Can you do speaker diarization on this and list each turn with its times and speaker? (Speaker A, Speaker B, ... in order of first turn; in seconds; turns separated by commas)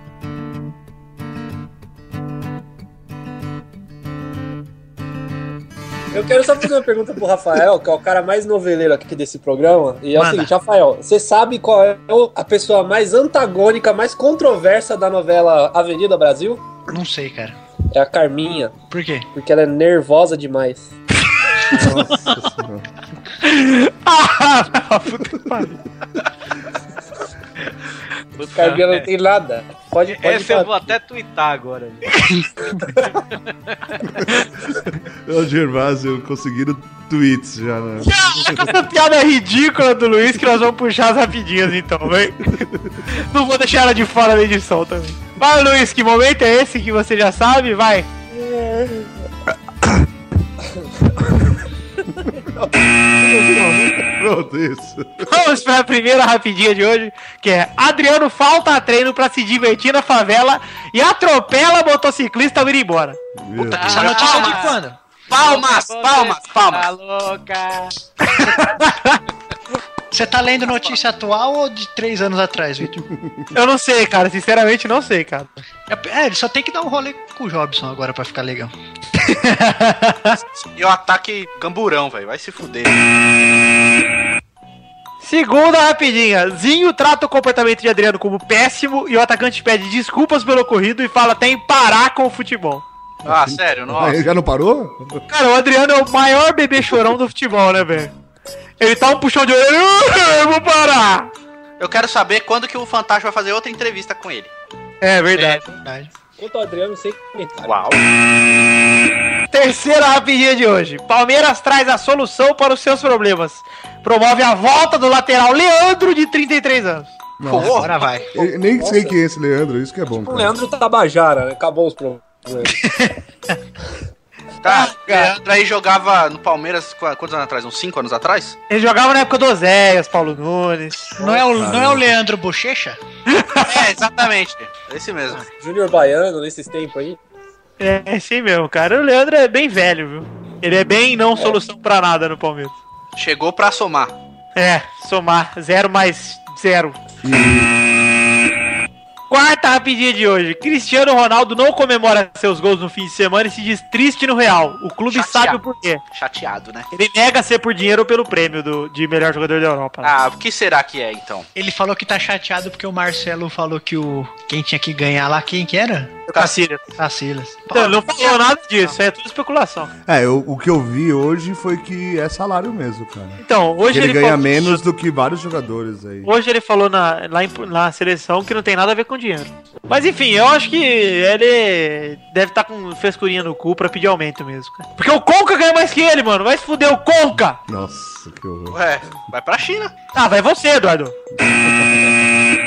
Speaker A: 6.1-16.6, Speaker B: 10.2-10.5, Speaker B: 16.9-17.6, Speaker A: 17.9-18.8, Speaker B: 18.9-19.3, Speaker A: 19.4-20.9, Speaker C: 21.7-22.9, Speaker D: 23.4-25.8, Speaker E: 28.4-29.1, Speaker A: 28.5-30.7, Speaker E: 30.1-32.2, Speaker E: 33.7-34.0, Speaker C: 35.3-38.7, Speaker D: 38.0-48.1, Speaker C: 42.6-42.9, Speaker D: 53.2-53.9, Speaker C: 53.5-55.3, Speaker D: 55.3-63.2, Speaker C: 63.4-64.0, Speaker F: 63.7-64.8, Speaker E: 63.8-64.7, Speaker B: 63.9-65.0, Speaker F: 65.3-66.9, Speaker E: 65.3-68.0, Speaker D: 68.4-69.2, Speaker B: 70.1-73.0, Speaker E: 70.7-71.0, Speaker C: 73.0-73.5, Speaker D: 73.5-75.5, Speaker B: 75.9-78.7, Speaker D: 79.3-80.4, Speaker F: 80.5-83.0, Speaker D: 85.2-92.8, Speaker F: 93.2-94.2, Speaker C: 93.9-95.2, Speaker D: 95.3-98.1, Speaker D: 98.8-101.3, Speaker F: 101.8-104.5, Speaker D: 105.0-105.7, Speaker B: 105.4-106.1, Speaker A: 106.4-107.8, Speaker F: 107.6-108.0, Speaker D: 109.5-117.1, Speaker C: 117.4-120.5, Speaker F: 117.5-118.0, Speaker B: 117.5-118.3, Speaker A: 118.3-119.2, Speaker A: 120.2-122.8, Speaker F: 124.6-128.6, Speaker D: 124.7-125.4, Speaker D: 128.7-131.1, Speaker B: 131.2-133.0, Speaker A: 131.2-131.6, Speaker C: 131.5-132.1, Speaker D: 133.3-133.9, Speaker F: 133.6-135.4, Speaker A: 135.6-137.2, Speaker D: 137.8-142.8, Speaker F: 143.2-144.1, Speaker D: 144.6-147.0, Speaker C: 147.2-147.7, Speaker D: 149.3-156.0, Speaker F: 155.1-155.6, Speaker F: 156.1-156.9, Speaker D: 156.9-160.1, Speaker F: 160.0-161.5, Speaker B: 161.6-166.2, Speaker F: 166.3-166.6, Speaker D: 166.3-166.8, Speaker B: 167.0-167.9, Speaker D: 167.7-169.9, Speaker C: 170.1-176.3, Speaker D: 173.4-174.8, Speaker D: 176.2-187.6, Speaker C: 187.7-188.8, Speaker F: 188.7-189.9, Speaker D: 190.2-191.1, Speaker C: 191.4-192.2